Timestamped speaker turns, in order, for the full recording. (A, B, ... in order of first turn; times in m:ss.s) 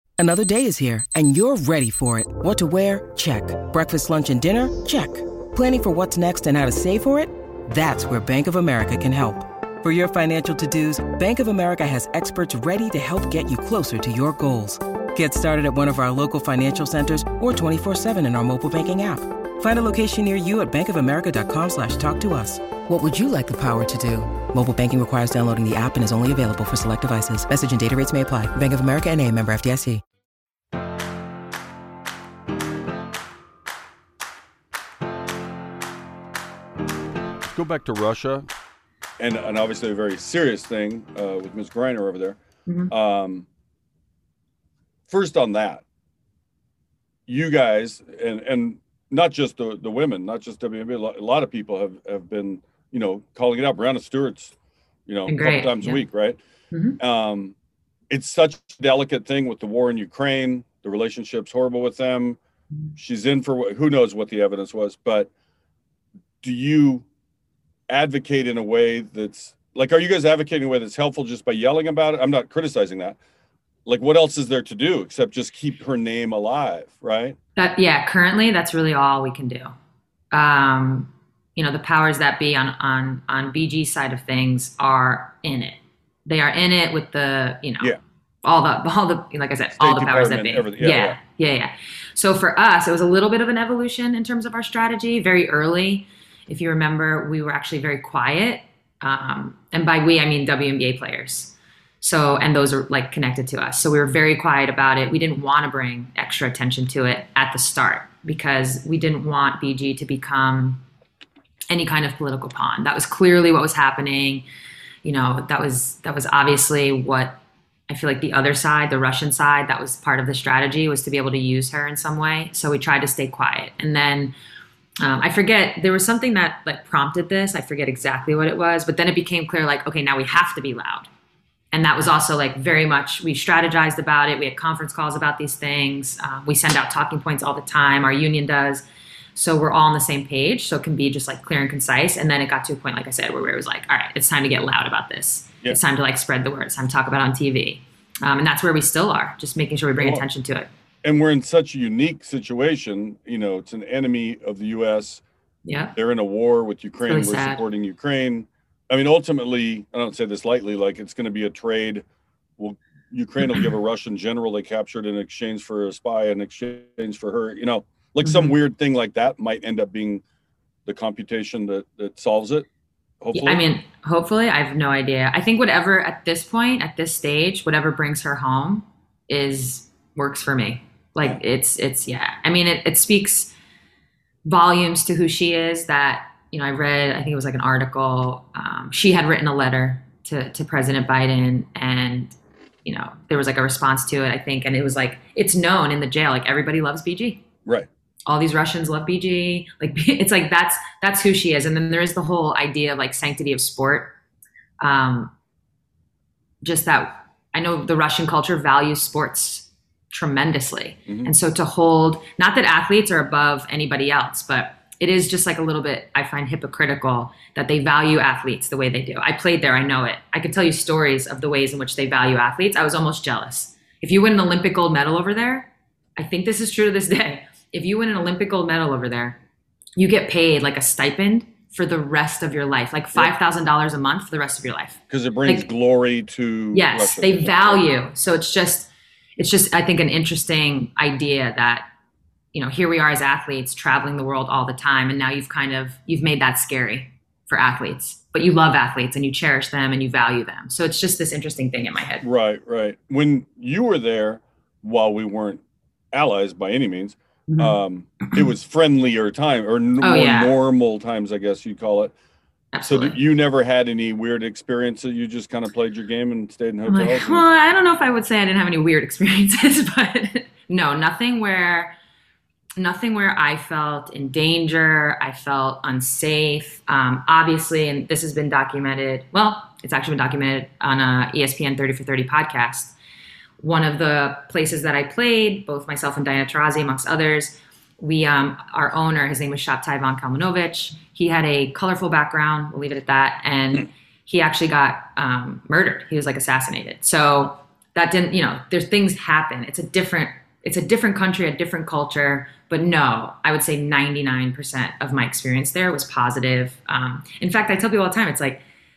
0:00.2-0:30.0 A
0:37.4-0:38.5 B
0:39.2-0:42.4 B
0:42.9-0:43.5 B
0:45.1-0:45.8 B
0:47.3-0:54.6 B
0:55.1-0:56.4 B
0:55.3-0:56.0 C
0:56.7-0:57.0 C
0:57.0-0:57.6 B
0:58.1-1:02.4 B
1:03.0-1:05.3 B
1:06.4-1:07.1 B
1:07.9-1:13.2 B
1:13.9-1:17.4 B
1:17.6-1:19.7 C
1:20.3-1:50.8 C
1:29.8-1:31.2 B
1:51.7-1:54.4 C
1:55.0-2:04.3 C
2:05.0-2:11.1 C
2:11.7-2:30.7 C
2:30.0-2:30.2 B
2:31.0-2:35.2 B
2:35.7-2:36.0 C
2:36.0-2:42.0 B
2:37.0-2:37.6 C
2:42.6-2:50.2 B
2:48.2-2:48.6 C
2:50.9-2:52.7 B
2:53.2-2:53.6 B
2:53.3-3:03.5 C
3:04.5-3:12.3 C
3:12.8-3:17.4 C
3:18.3-3:24.2 C
3:24.8-3:25.3 C
3:26.6-3:49.4 C
3:50.0-3:55.7 C
3:55.1-3:57.9 B
3:56.7-4:01.9 C
4:02.5-4:12.2 C
4:12.2-4:22.1 B
4:17.5-4:18.5 C
4:20.0-4:20.6 C
4:22.7-4:23.2 C
4:22.8-4:27.4 B
4:26.9-4:32.0 C
4:32.8-4:42.9 C
4:43.6-5:08.6 C